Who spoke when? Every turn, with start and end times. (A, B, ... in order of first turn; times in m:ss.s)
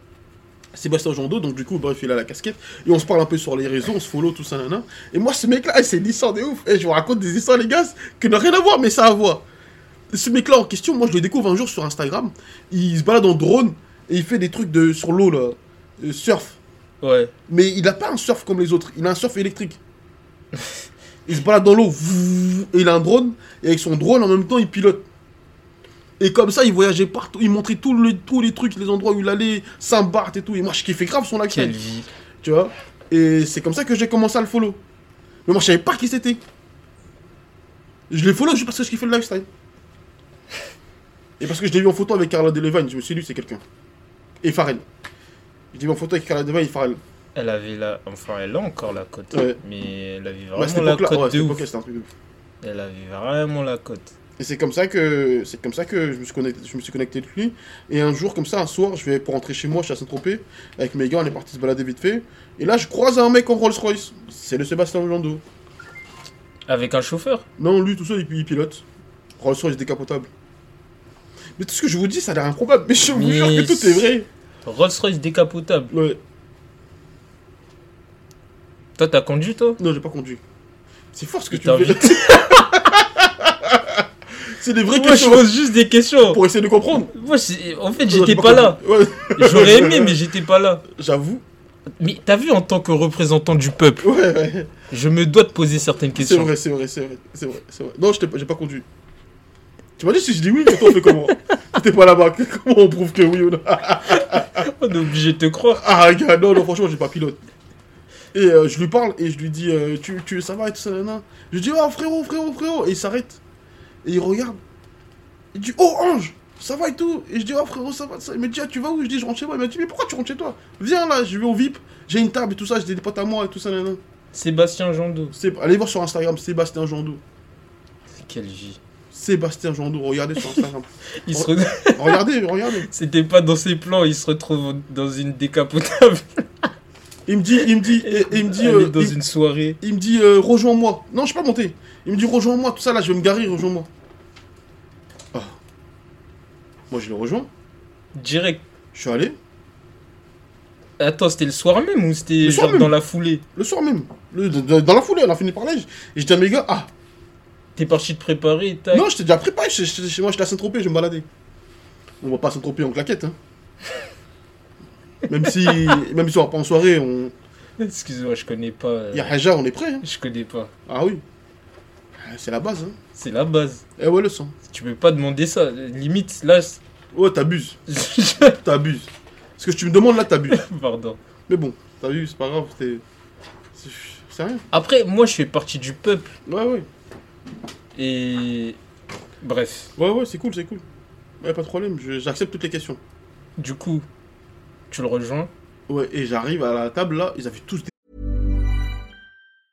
0:00.7-0:09.4 A
0:10.1-0:16.6 A
0:17.0-0:17.3 B
0:17.5-0:19.8 A
0:21.2-0:25.0 A
0:26.2-0:31.8 A
0:31.5-0:32.1 B
0:32.4-0:34.8 A
0:35.4-0:36.4 A
0:38.1-0:39.5 A
0:41.4-0:43.6 A
0:44.4-0:44.8 A
0:45.7-0:47.0 A
0:47.3-0:51.6 B
0:49.3-0:49.6 A
0:50.6-0:52.1 A
0:52.6-0:54.1 B
0:54.4-1:05.4 A
1:06.7-1:07.4 B
1:07.6-1:08.8 A
1:09.4-1:10.3 A
1:11.6-1:14.3 A
1:13.1-1:14.1 B
1:14.6-1:15.9 B
1:15.9-1:16.2 A
1:19.0-1:19.8 B
1:19.8-1:20.4 A
1:21.1-1:25.5 A
1:21.5-1:22.8 B
1:24.9-1:26.4 B
1:26.2-1:27.1 A
1:27.1-1:28.8 B
1:28.1-1:30.2 A
1:29.4-1:30.8 B
1:30.9-1:31.4 A
1:32.0-1:34.1 B
1:34.0-1:34.7 A
1:34.9-1:36.5 B
1:36.2-1:38.8 A
1:40.0-1:44.7 A
1:44.1-1:45.8 B
1:45.7-1:47.4 A
1:48.3-1:53.4 A
1:54.0-1:54.6 A
1:55.5-2:04.0 A
2:04.3-2:05.3 B
2:05.3-2:07.2 A
2:08.1-2:08.8 B
2:09.1-2:12.9 A
2:11.2-2:12.2 B
2:12.9-2:16.7 B
2:17.3-2:19.2 A
2:17.8-2:19.8 B
2:19.8-2:23.9 A
2:26.9-2:27.5 A
2:28.1-2:28.6 B
2:28.9-2:29.4 A
2:31.0-2:33.4 B
2:32.4-2:32.9 A
2:33.5-2:36.9 A
2:37.8-2:39.1 B
2:38.9-2:41.2 A
2:42.2-2:43.4 A
2:45.3-2:47.3 A
2:45.6-2:46.0 B
2:47.8-2:49.4 B
2:49.1-2:50.0 A
2:50.0-2:50.7 B
2:50.9-2:51.2 A
2:52.2-2:53.0 A
2:53.2-2:53.8 B
2:54.0-2:54.5 A
2:54.7-2:56.8 B
2:57.1-2:57.8 A
2:57.9-2:58.6 B
2:58.5-3:00.6 A
3:00.5-3:01.2 B
3:01.5-3:03.0 A
3:03.7-3:04.6 A
3:04.7-3:06.3 B
3:06.5-3:06.8 A
3:08.0-3:08.8 B
3:09.4-3:09.9 B
3:10.0-3:10.8 A
3:11.4-3:13.0 A
3:13.6-3:14.0 B
3:14.9-3:15.5 B
3:15.9-3:17.9 A